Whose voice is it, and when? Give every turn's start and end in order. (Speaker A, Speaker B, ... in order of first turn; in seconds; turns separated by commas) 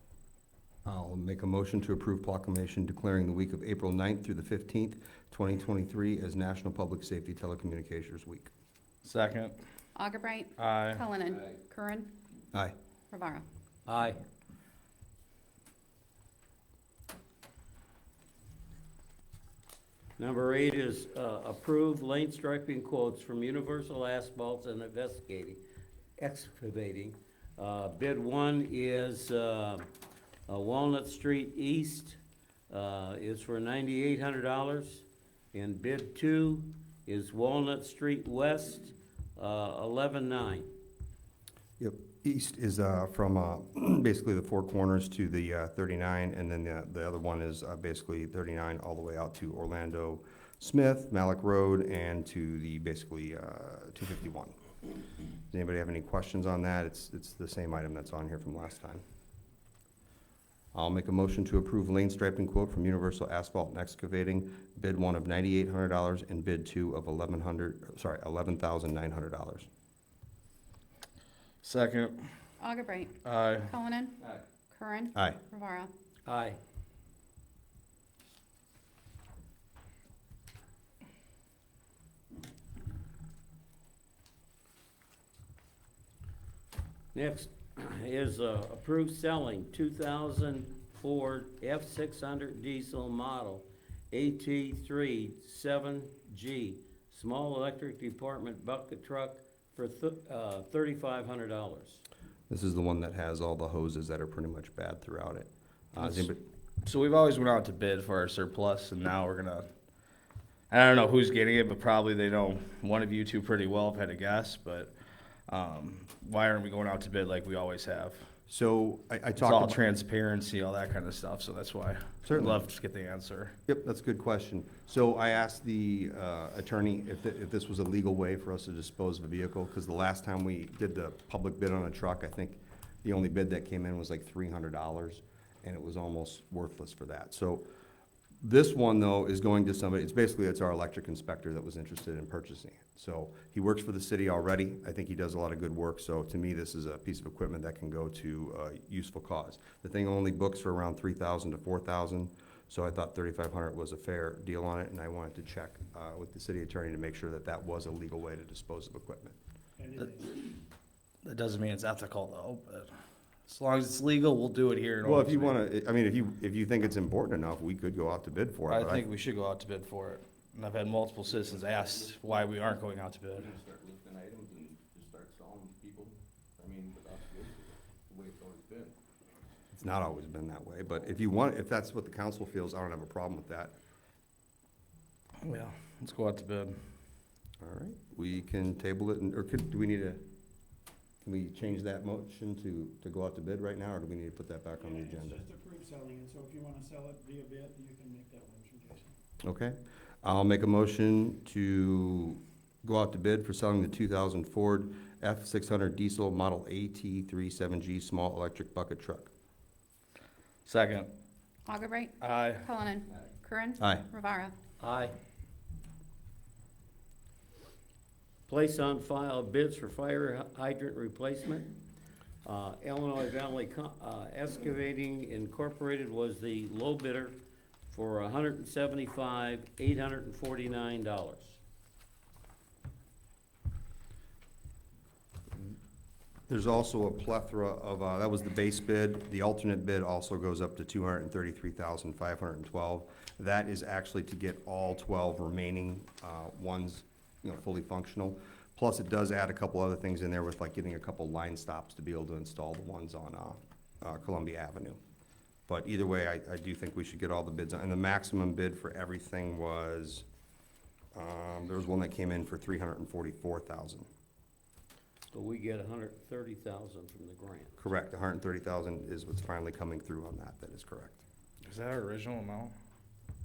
Speaker A: 0.8-8.5, Speaker B: 9.0-9.6, Speaker C: 9.9-12.1, Speaker B: 10.6-11.0, Speaker C: 13.1-13.4, Speaker D: 13.9-14.2, Speaker D: 20.2-25.6, Speaker D: 26.2-29.9, Speaker D: 30.5-32.2, Speaker D: 32.7-40.7, Speaker A: 41.8-54.5, Speaker A: 55.5-59.0, Speaker A: 60.7-69.7, Speaker B: 71.6-72.2, Speaker C: 72.6-74.2, Speaker B: 73.2-73.7, Speaker C: 74.7-75.9, Speaker D: 76.2-76.6, Speaker D: 87.1-102.0, Speaker A: 102.5-106.4, Speaker B: 106.0-106.3, Speaker B: 106.8-109.7, Speaker B: 110.7-114.9, Speaker B: 115.5-118.2, Speaker A: 118.5-119.8, Speaker B: 119.4-123.5, Speaker A: 122.2-122.6, Speaker A: 123.7-137.7, Speaker A: 138.4-159.3, Speaker E: 159.8-160.4, Speaker B: 160.0-160.2, Speaker B: 161.2-162.9, Speaker B: 163.5-165.5, Speaker A: 165.0-169.0, Speaker B: 168.7-173.5, Speaker F: 171.4-172.3, Speaker F: 173.4-178.9, Speaker A: 179.7-183.7, Speaker B: 185.4-186.8, Speaker A: 187.6-190.2, Speaker A: 191.2-195.4, Speaker E: 194.8-199.1, Speaker A: 199.4-209.3, Speaker B: 210.7-211.1, Speaker C: 211.7-214.5, Speaker B: 212.2-212.6, Speaker D: 214.8-215.1, Speaker D: 218.5-221.8, Speaker D: 222.4-227.4, Speaker D: 227.9-231.6, Speaker A: 236.5-255.0, Speaker A: 255.7-260.2, Speaker A: 261.1-264.1, Speaker D: 265.3-267.8, Speaker A: 267.8-271.2, Speaker B: 271.6-272.7